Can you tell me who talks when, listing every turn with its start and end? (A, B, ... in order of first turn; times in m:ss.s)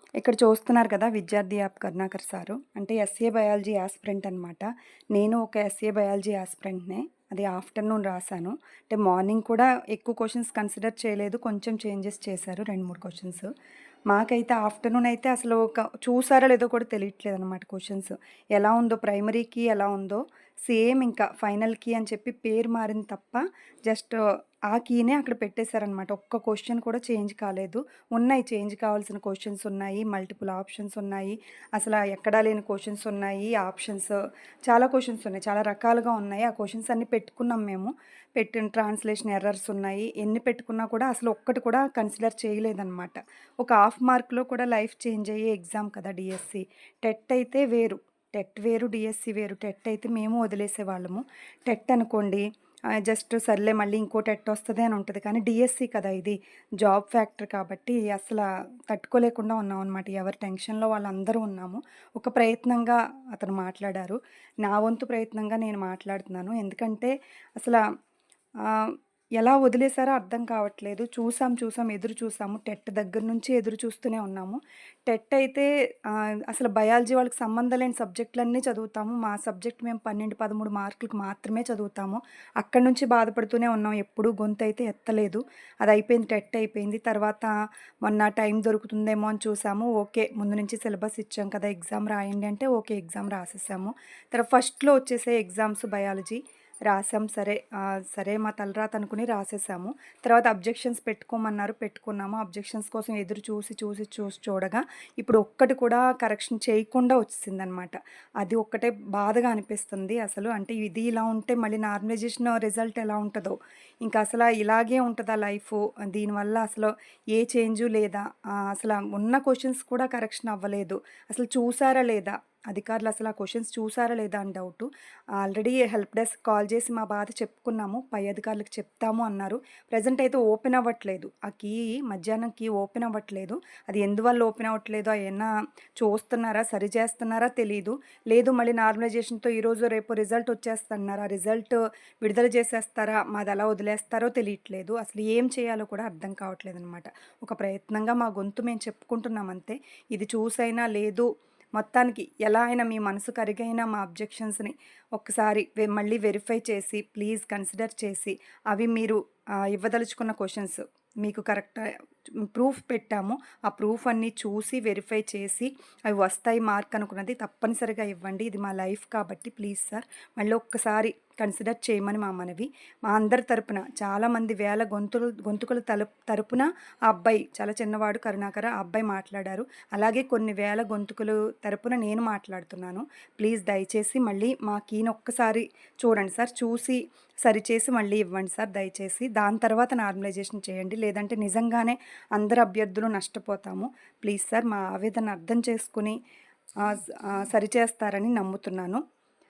0:00.2-0:13.5 A
0:14.1-0:24.2 A
0:24.7-0:34.2 A
0:34.7-0:52.4 A
0:53.0-1:07.8 A
1:08.7-1:27.5 A
1:28.0-2:04.9 A
2:05.4-2:41.9 A
2:42.4-3:16.2 A
3:16.8-3:19.0 A